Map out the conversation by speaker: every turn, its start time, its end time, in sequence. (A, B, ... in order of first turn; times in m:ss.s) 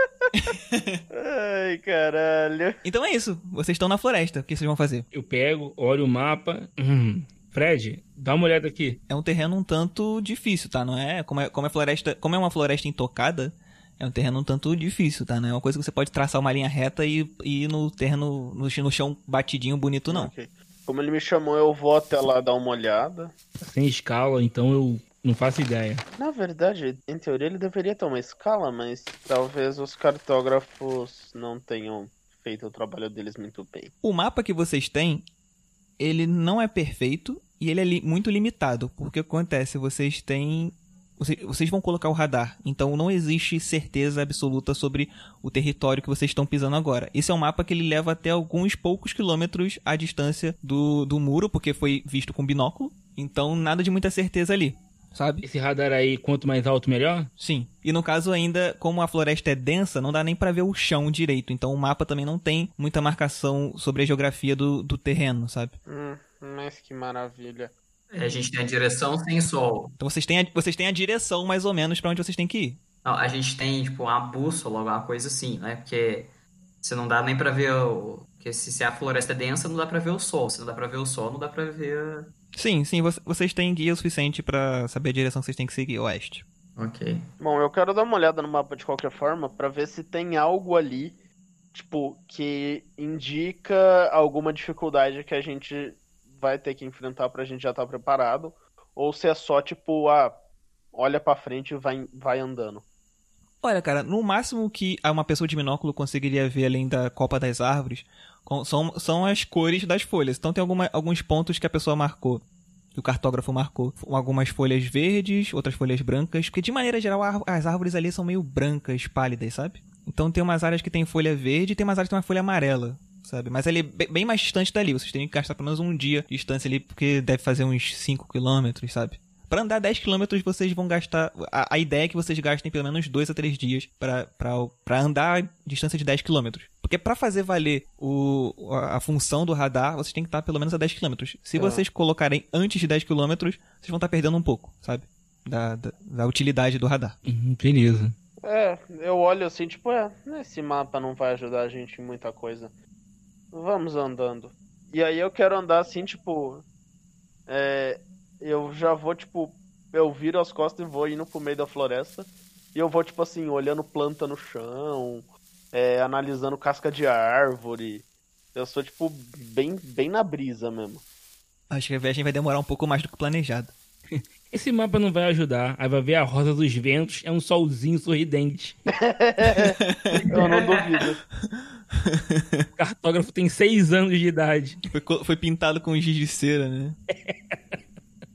0:00.4-0:01.0 A
0:01.1-0:02.8 B
0:02.8-0:05.1 A
0:05.1-0:09.0 C
0:09.1-0:20.3 A
0:20.1-0:23.3 B
0:23.6-0:26.0 C
0:26.2-0:33.9 B
0:34.0-0:35.2 A
0:36.0-0:55.4 A
0:55.4-0:57.3 C
0:57.4-1:05.8 A
1:05.9-1:07.7 B
1:08.1-1:09.9 D
1:10.0-1:12.8 A
1:13.0-1:16.3 D
1:16.8-1:22.3 D
1:22.5-1:26.4 A
1:26.8-1:27.2 D
1:27.4-1:31.2 B
1:31.7-1:40.4 B
1:40.9-1:42.8 B
1:43.6-2:27.2 A
2:21.6-2:21.8 B
2:27.2-2:28.2 C
2:28.4-2:32.7 B
2:33.5-2:36.6 B
2:37.5-2:51.0 B
2:51.7-2:53.7 A
2:54.1-2:58.8 C
2:59.0-2:59.8 B
2:59.8-3:00.1 A
3:00.1-3:01.0 D
3:00.3-3:01.2 B
3:02.0-3:02.7 A
3:02.8-3:04.8 C
3:04.9-3:07.0 A
3:07.1-3:07.8 C